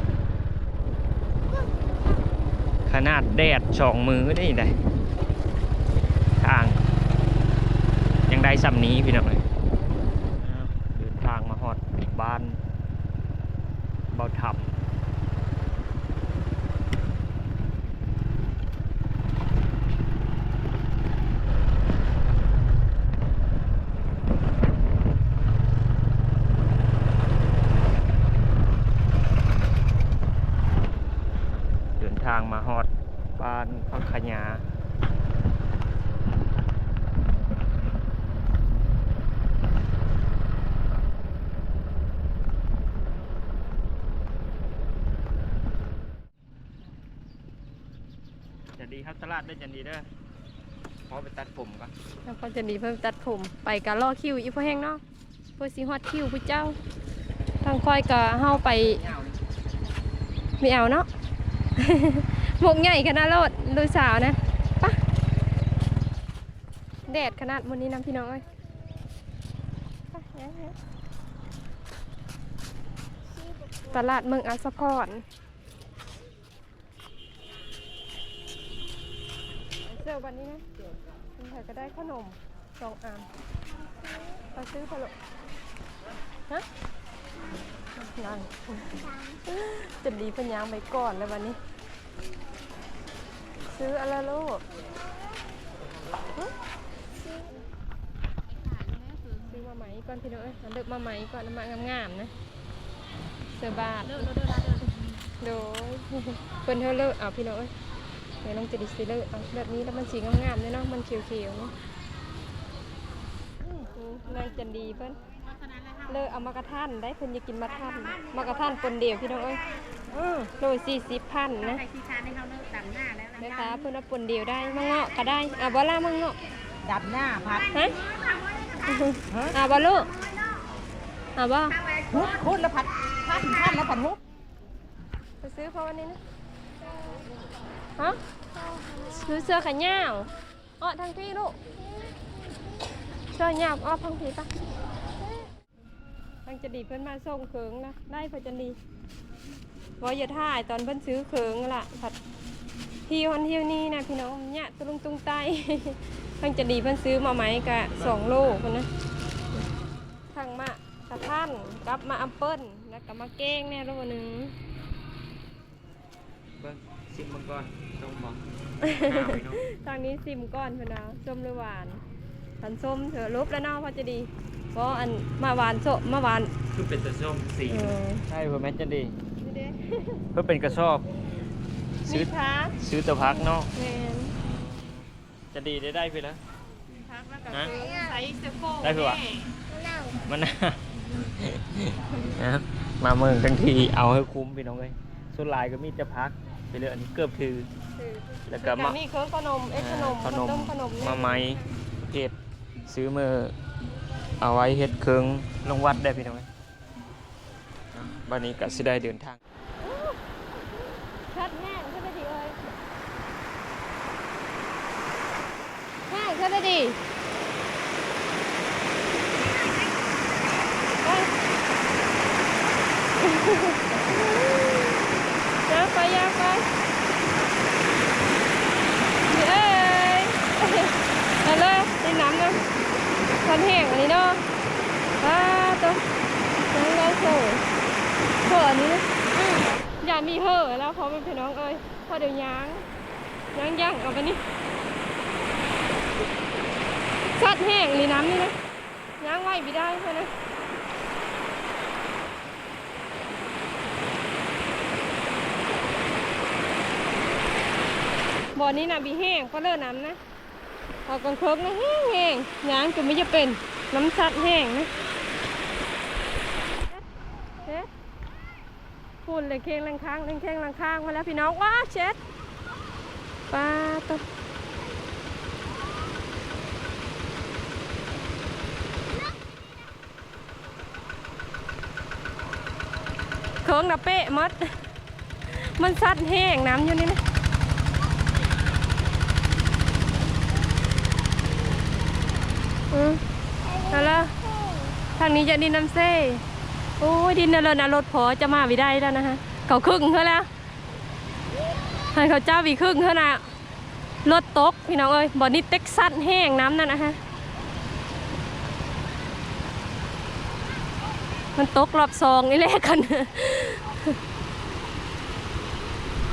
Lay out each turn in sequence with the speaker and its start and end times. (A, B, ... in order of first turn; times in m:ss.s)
0:02.9-0:04.7 A
0:06.4-0:06.8 A
0:08.3-0:09.4 A
0:10.4-0:12.6 A
0:14.1-0:14.7 A
0:32.0-0:34.6 A
0:48.7-0:50.1 A
0:51.1-0:51.9 A
0:52.2-0:55.0 B
0:55.6-0:56.8 B
0:57.6-0:59.0 B
0:58.4-0:59.4 A
1:00.6-1:01.1 B
1:01.8-1:05.0 B
1:07.1-1:08.4 B
1:10.1-1:10.8 B
1:13.4-1:13.9 C
1:13.9-1:15.2 B
1:19.8-1:20.6 B
1:21.4-1:23.3 B
1:24.5-1:25.1 B
1:28.0-1:28.9 B
1:28.9-1:29.4 C
1:29.5-1:31.6 B
1:33.7-1:34.6 B
1:37.2-1:37.6 C
1:39.3-1:42.3 B
1:43.5-1:44.9 B
1:45.4-1:47.7 B
1:48.4-1:51.7 B
1:53.9-1:55.2 B
1:56.0-2:01.8 B
2:02.2-2:03.3 D
2:03.4-2:06.4 B
2:06.8-2:07.7 D
2:08.8-2:10.1 B
2:09.3-2:09.6 D
2:11.4-2:11.8 B
2:12.0-2:14.2 D
2:15.4-2:16.2 B
2:18.7-2:19.1 C
2:19.1-2:20.3 B
2:20.8-2:21.6 B
2:23.3-2:24.5 B
2:26.4-2:28.8 B
2:30.0-2:32.2 B
2:33.1-2:38.9 B
2:40.3-2:44.5 B
2:46.6-2:49.6 A
2:48.8-2:52.0 B
2:52.6-2:56.5 B
2:56.7-2:59.2 A
2:57.7-2:58.2 B
2:59.4-3:00.2 B
3:00.3-3:01.1 A
3:02.1-3:02.8 B
3:02.1-3:03.7 A
3:03.7-3:04.4 B
3:04.4-3:06.4 A
3:07.1-3:09.4 B
3:07.7-3:08.2 C
3:08.8-3:09.3 A
3:09.7-3:10.2 C
3:10.2-3:17.7 A
3:18.0-3:21.6 B
3:18.5-3:19.0 A
3:19.8-3:23.5 A
3:24.4-3:26.5 A
3:27.9-3:29.4 A
3:29.8-3:30.1 B
3:31.3-3:32.6 B
3:36.1-3:37.0 B
3:41.0-3:41.3 B
3:43.2-3:44.9 B
3:45.7-3:46.6 B
3:49.3-3:52.6 B
3:53.4-3:54.4 B
3:55.2-3:56.0 B
3:56.7-3:57.6 B
3:58.4-3:59.2 B
3:59.9-4:02.8 B
4:03.5-4:04.4 B
4:07.4-4:08.5 B
4:09.2-4:10.3 B
4:18.5-4:20.2 B
4:21.0-4:24.9 B
4:29.2-4:32.2 B
4:33.5-4:34.2 B
4:43.6-4:44.7 B
4:45.5-4:47.2 B
4:52.9-4:53.2 B
4:53.6-4:55.0 C
4:53.9-4:54.3 B
4:55.2-4:56.4 B
4:57.0-5:00.5 B
5:02.1-5:03.4 B
5:04.2-5:07.2 B
5:11.5-5:14.2 B